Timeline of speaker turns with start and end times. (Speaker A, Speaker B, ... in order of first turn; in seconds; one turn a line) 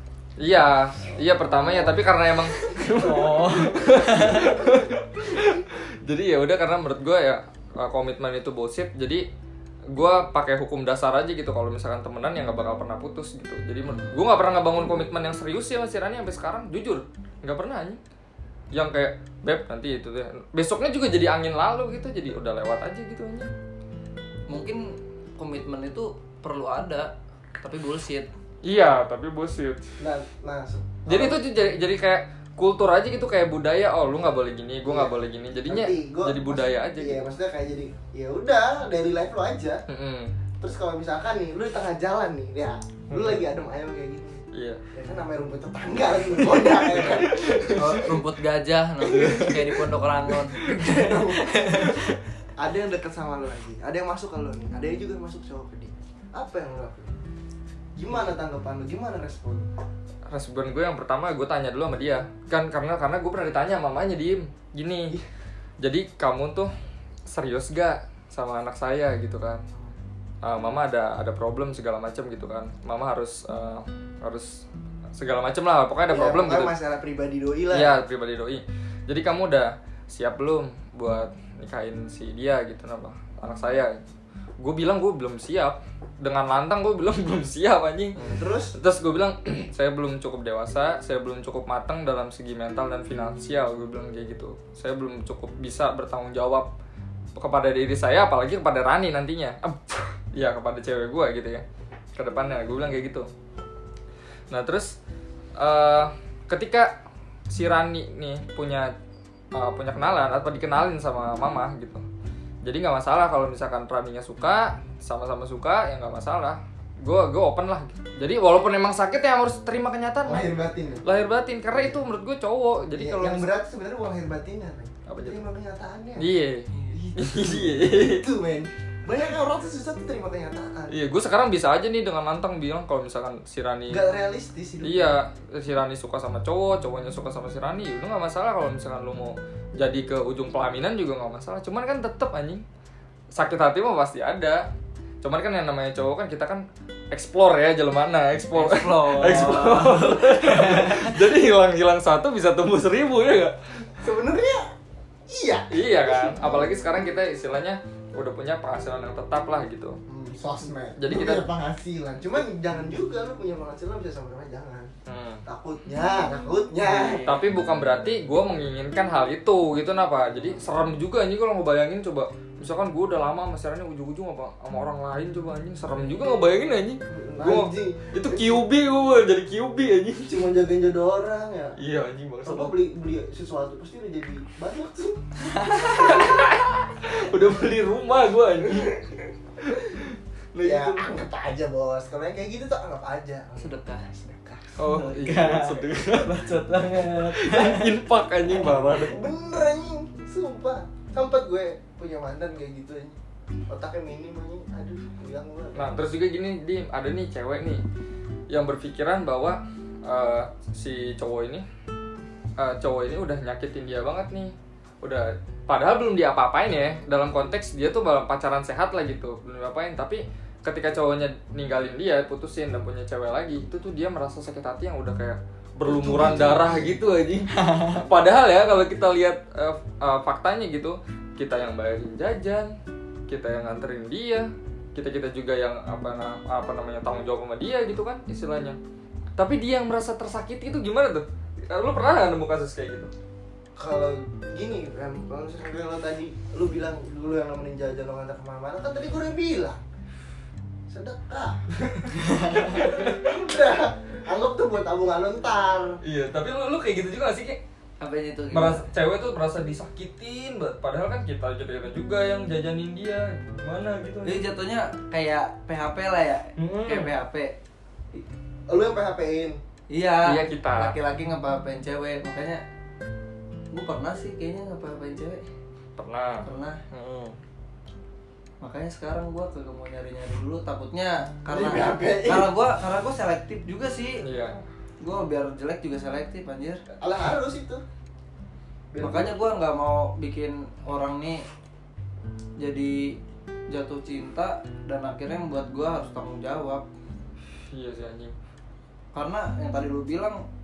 Speaker A: 0.4-9.2
Speaker B: 1.2-2.0
Speaker C: 3.0-4.5
Speaker A: 9.9-18.0
Speaker C: 13.8-14.2
Speaker A: 18.7-23.5
Speaker C: 24.5-28.3
Speaker A: 28.6-29.9
Speaker B: 30.0-31.4
Speaker A: 31.1-37.2
Speaker B: 34.9-39.8
Speaker A: 39.9-40.3
Speaker B: 40.6-44.4
Speaker A: 43.1-43.4
Speaker A: 44.5-44.8
Speaker B: 44.9-48.1
Speaker A: 46.4-47.7
Speaker C: 47.8-52.1
Speaker A: 49.1-49.5
Speaker B: 49.3-49.6
Speaker B: 50.3-57.1
Speaker B: 58.0-59.7
Speaker A: 60.3-65.2
Speaker A: 65.8-66.7
Speaker A: 67.3-69.6
Speaker A: 70.4-74.6
Speaker A: 75.2-76.8
Speaker B: 76.1-78.0
Speaker A: 77.7-84.0
Speaker A: 84.6-88.2
Speaker B: 88.2-88.8
Speaker A: 88.8-96.7
Speaker A: 97.4-101.6
Speaker A: 102.2-103.3
Speaker A: 104.5-105.0
Speaker A: 105.6-107.0
Speaker A: 107.5-108.9
Speaker A: 109.5-112.0
Speaker A: 112.6-120.5
Speaker B: 120.2-121.0
Speaker A: 121.0-123.5
Speaker B: 122.9-126.3
Speaker A: 125.1-125.4
Speaker A: 126.2-128.2
Speaker B: 126.9-130.9
Speaker A: 130.9-134.0
Speaker B: 133.9-135.2
Speaker A: 134.8-142.6
Speaker A: 143.3-144.6
Speaker A: 145.2-154.1
Speaker C: 148.5-151.3
Speaker B: 154.0-154.7
Speaker B: 155.3-156.9
Speaker A: 155.7-160.0
Speaker B: 160.1-164.9
Speaker A: 161.0-161.5
Speaker A: 165.1-165.4
Speaker B: 165.5-167.3
Speaker C: 166.8-167.4
Speaker A: 167.2-180.5
Speaker B: 177.1-178.7
Speaker B: 180.3-181.8
Speaker A: 181.8-182.8
Speaker B: 182.4-185.2
Speaker C: 185.5-185.9
Speaker A: 185.7-189.0
Speaker A: 190.5-191.1
Speaker B: 190.6-194.8
Speaker C: 193.6-194.1
Speaker A: 194.8-196.3
Speaker C: 194.9-198.0
Speaker A: 197.1-199.2
Speaker B: 198.5-203.2
Speaker B: 203.7-205.9
Speaker A: 205.8-207.8
Speaker A: 208.5-211.7
Speaker A: 212.6-232.7
Speaker B: 225.8-227.0
Speaker C: 227.6-228.0
Speaker A: 233.3-238.8
Speaker A: 239.4-243.1
Speaker B: 243.8-249.8
Speaker B: 250.9-256.0
Speaker A: 252.8-253.1
Speaker A: 256.0-257.6
Speaker C: 258.0-258.9
Speaker A: 258.5-264.5
Speaker C: 264.2-267.6
Speaker A: 266.6-267.1
Speaker B: 268.7-269.6
Speaker C: 269.9-272.6
Speaker A: 270.2-271.0
Speaker C: 273.7-275.4
Speaker A: 276.0-277.4
Speaker C: 276.4-276.8
Speaker C: 278.6-284.2
Speaker B: 281.5-282.5
Speaker A: 284.2-284.6
Speaker C: 285.0-286.8
Speaker B: 287.0-287.8
Speaker B: 288.9-289.4
Speaker C: 289.0-291.4
Speaker C: 292.6-293.2
Speaker C: 293.7-296.9
Speaker A: 297.7-298.3
Speaker C: 299.1-300.4